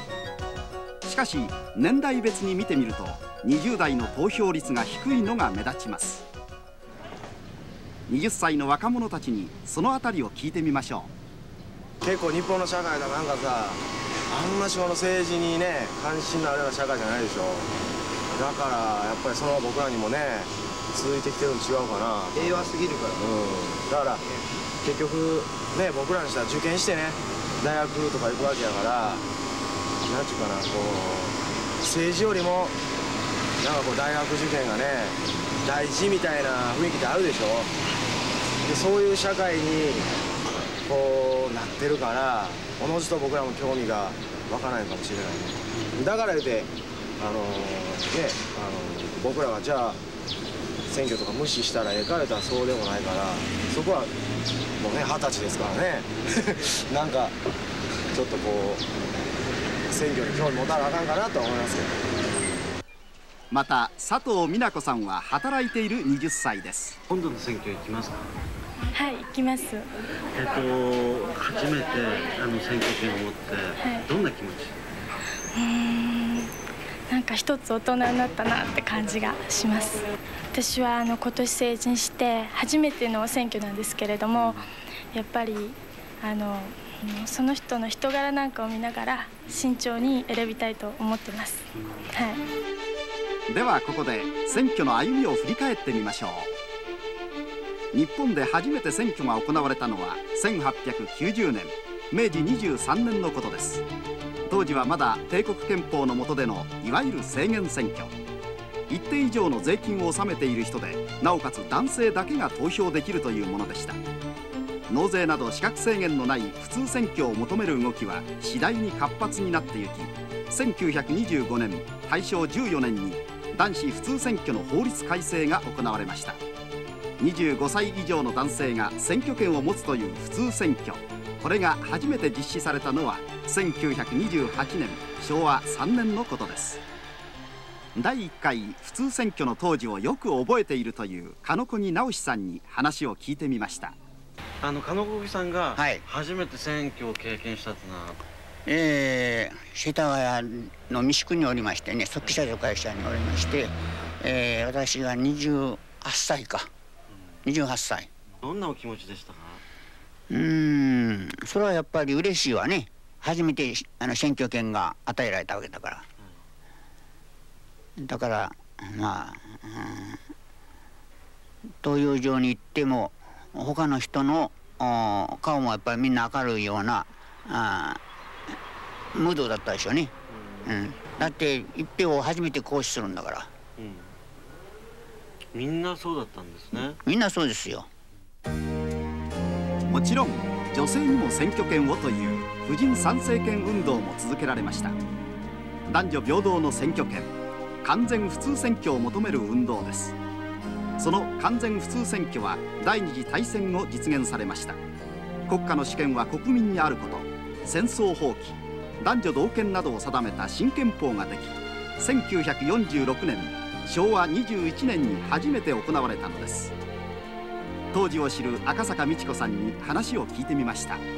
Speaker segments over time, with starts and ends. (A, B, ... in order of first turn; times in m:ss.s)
0:01.0-0:06.3 A
0:08.1-0:11.1 A
0:12.0-0:17.7 B
0:18.4-0:24.2 B
0:24.8-0:29.2 B
0:30.0-0:32.8 B
0:33.6-0:37.7 B
0:38.6-0:40.1 B
0:40.8-0:50.0 B
0:50.9-0:54.1 B
0:54.8-0:57.4 B
0:58.1-0:58.8 B
0:59.9-1:02.0 B
1:03.5-1:07.0 A
1:07.1-1:08.3 C
1:08.9-1:09.9 D
1:10.4-1:14.8 C
1:15.6-1:16.5 D
1:17.1-1:31.6 D
1:32.2-1:32.4 D
1:33.5-1:36.5 A
1:37.9-1:43.8 A
1:44.5-1:48.2 A
1:48.9-1:54.0 A
1:54.9-2:06.4 A
2:07.2-2:16.8 A
2:18.0-2:24.0 A
2:24.6-2:28.2 C
2:25.8-2:26.0 E
2:28.7-2:36.7 E
2:32.2-2:32.5 C
2:37.5-2:38.1 E
2:38.4-2:39.6 C
2:40.3-2:46.0 E
2:48.0-2:50.2 E
2:51.8-2:58.0 E
2:59.1-3:00.1 E
3:00.7-3:03.5 E
3:03.8-3:04.1 C
3:05.5-3:07.0 C
3:07.1-3:07.9 E
3:09.9-3:15.0 A
3:15.9-3:20.2 A
3:21.0-3:24.8 A
3:25.5-3:36.7 A
3:37.9-3:41.0 A